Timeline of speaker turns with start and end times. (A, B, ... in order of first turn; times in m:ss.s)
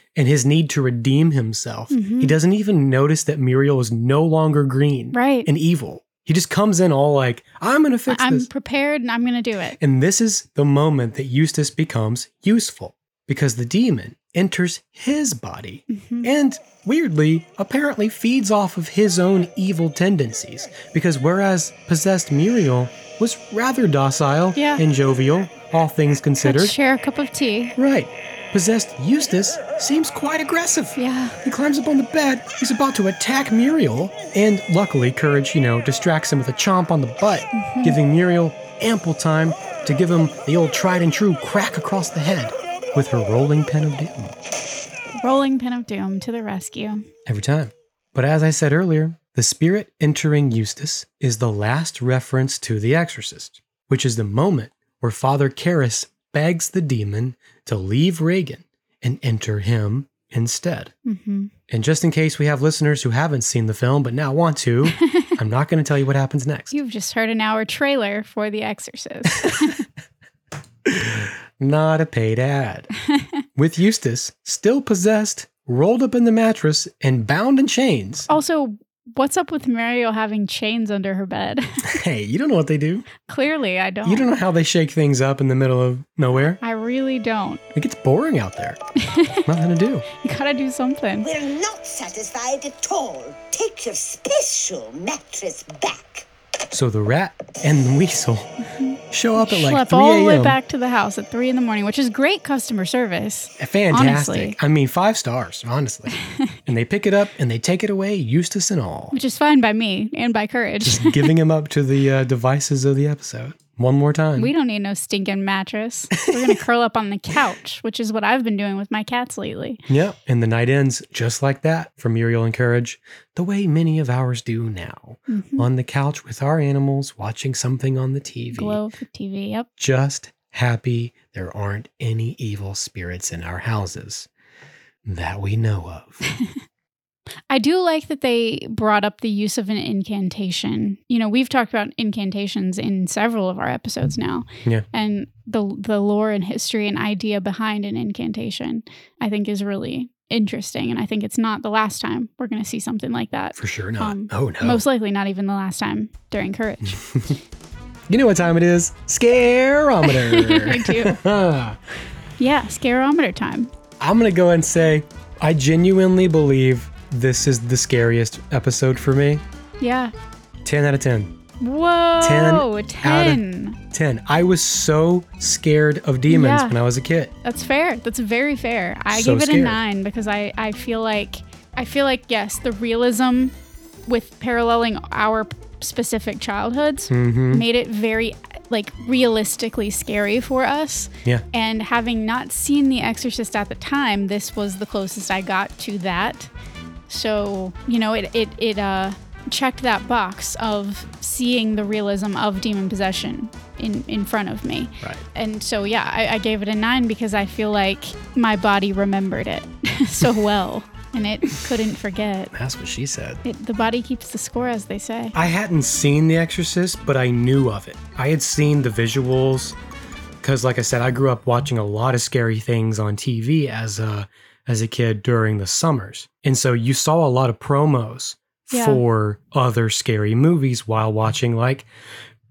0:00.2-0:08.5 A
0:01.9-0:02.4 B
0:05.1-0:05.5 B
0:08.1-0:09.8 B
0:09.8-0:26.8 A
0:15.9-0:16.3 B
0:24.6-0:24.8 B
0:26.4-0:27.8 B
0:27.8-0:44.4 A
0:31.0-0:31.4 B
0:37.5-0:38.0 B
0:45.2-0:47.1 B
0:47.3-1:00.9 A
1:01.1-1:01.5 B
1:01.7-1:06.8 A
1:06.7-1:09.8 B
1:09.4-1:09.7 A
1:10.8-1:12.9 A
1:13.6-1:18.3 A
1:18.3-1:21.9 B
1:21.8-1:23.1 A
1:23.2-1:24.3 B
1:24.0-1:26.6 A
1:26.6-1:27.6 B
1:27.7-1:28.8 A
1:29.0-1:29.5 B
1:29.4-1:30.0 A
1:30.1-1:31.3 B
1:31.2-1:36.3 C
1:36.7-1:38.5 A
1:38.8-1:44.6 B
1:39.1-1:40.6 A
1:43.6-1:46.1 A
1:46.7-1:49.2 A
1:49.1-1:51.3 B
1:50.8-1:54.5 A
1:54.4-1:59.8 B
1:56.2-1:56.6 A
1:59.9-2:08.8 A
2:05.3-2:05.7 B
2:08.5-2:09.7 B
2:09.8-2:14.3 A
2:15.1-2:16.2 A
2:17.5-2:37.0 B
2:33.6-2:34.8 A
2:36.8-2:37.4 A
2:38.1-2:41.8 A
2:40.0-2:41.2 B
2:42.4-2:43.7 B
2:44.0-2:49.4 A
2:49.8-2:50.1 B
2:50.6-2:51.4 A
2:51.6-2:53.8 B
2:52.2-2:57.3 A
2:56.3-2:56.8 B
2:57.4-3:03.5 B
2:59.1-2:59.8 A
3:04.1-3:16.5 B
3:07.1-3:07.7 A
3:17.1-3:32.5 B
3:32.5-3:33.4 A
3:33.4-3:35.4 B
3:35.3-3:39.8 A
3:40.4-3:51.9 A
3:48.7-3:49.0 B